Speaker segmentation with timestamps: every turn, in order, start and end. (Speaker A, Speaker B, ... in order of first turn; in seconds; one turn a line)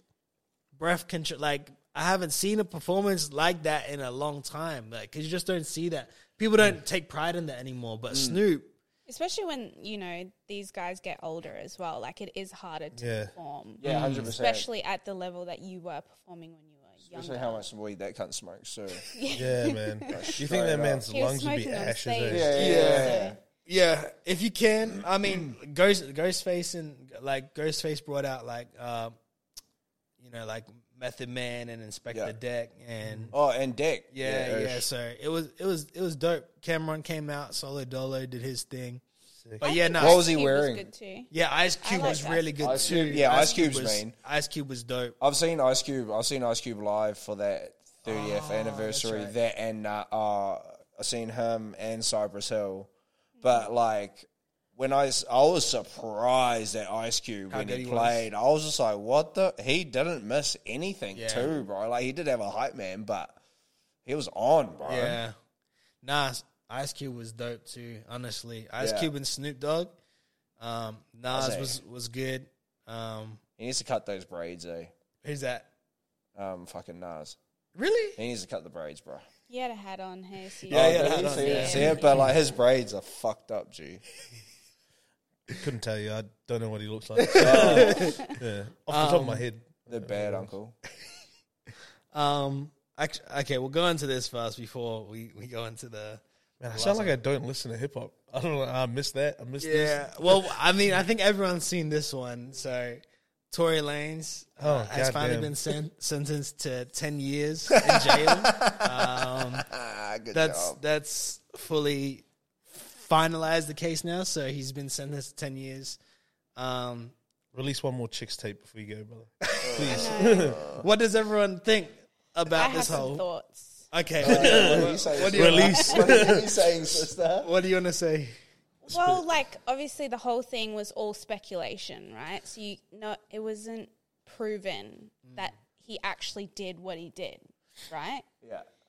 Speaker A: 0.7-8.7
Speaker B: 8.1-8.4
Speaker C: 9.1-17.6
Speaker D: 12.9-13.3
Speaker B: 13.8-14.7
Speaker A: 13.8-14.3
Speaker B: 17.1-19.5
Speaker C: 19.1-20.4
Speaker D: 19.3-22.5
Speaker B: 20.1-21.1
Speaker C: 21.1-23.3
Speaker B: 22.3-23.4
Speaker A: 22.5-29.1
Speaker B: 25.2-25.5
Speaker A: 30.2-33.3
Speaker D: 33.0-33.3
Speaker B: 33.3-34.9
Speaker A: 34.1-39.0
Speaker A: 39.6-40.3
Speaker C: 39.6-43.5
Speaker B: 39.9-40.8
Speaker A: 41.3-45.1
Speaker B: 42.0-44.1
Speaker B: 45.2-52.9
Speaker A: 48.0-49.3
Speaker B: 53.4-63.4
Speaker A: 57.5-58.3
Speaker A: 61.1-61.6
Speaker B: 64.0-65.2
Speaker A: 64.8-65.3
Speaker A: 66.0-69.9
Speaker B: 68.8-69.1
Speaker A: 70.6-73.4
Speaker B: 71.3-71.8
Speaker B: 73.6-74.9
Speaker A: 75.2-75.7
Speaker B: 76.3-77.4
Speaker A: 77.8-78.2
Speaker B: 78.2-79.2
Speaker C: 79.5-82.3
Speaker A: 80.7-82.0
Speaker B: 80.7-84.0
Speaker D: 85.5-90.5
Speaker A: 87.2-88.3
Speaker B: 87.4-88.2
Speaker A: 88.9-89.5
Speaker B: 89.9-90.8
Speaker A: 92.1-97.1
Speaker D: 96.6-100.5
Speaker A: 99.6-109.7
Speaker D: 104.6-105.6
Speaker B: 107.7-110.8
Speaker A: 110.3-116.0
Speaker A: 116.5-117.1
Speaker D: 117.5-120.6
Speaker B: 119.6-120.8
Speaker C: 119.8-120.6
Speaker A: 120.8-123.2
Speaker C: 122.5-123.9
Speaker A: 123.9-125.9
Speaker B: 124.2-127.5
Speaker D: 124.2-126.4
Speaker C: 125.9-126.3
Speaker A: 127.4-128.3
Speaker D: 128.9-129.2
Speaker C: 128.9-138.2
Speaker A: 135.2-135.5
Speaker B: 138.4-138.7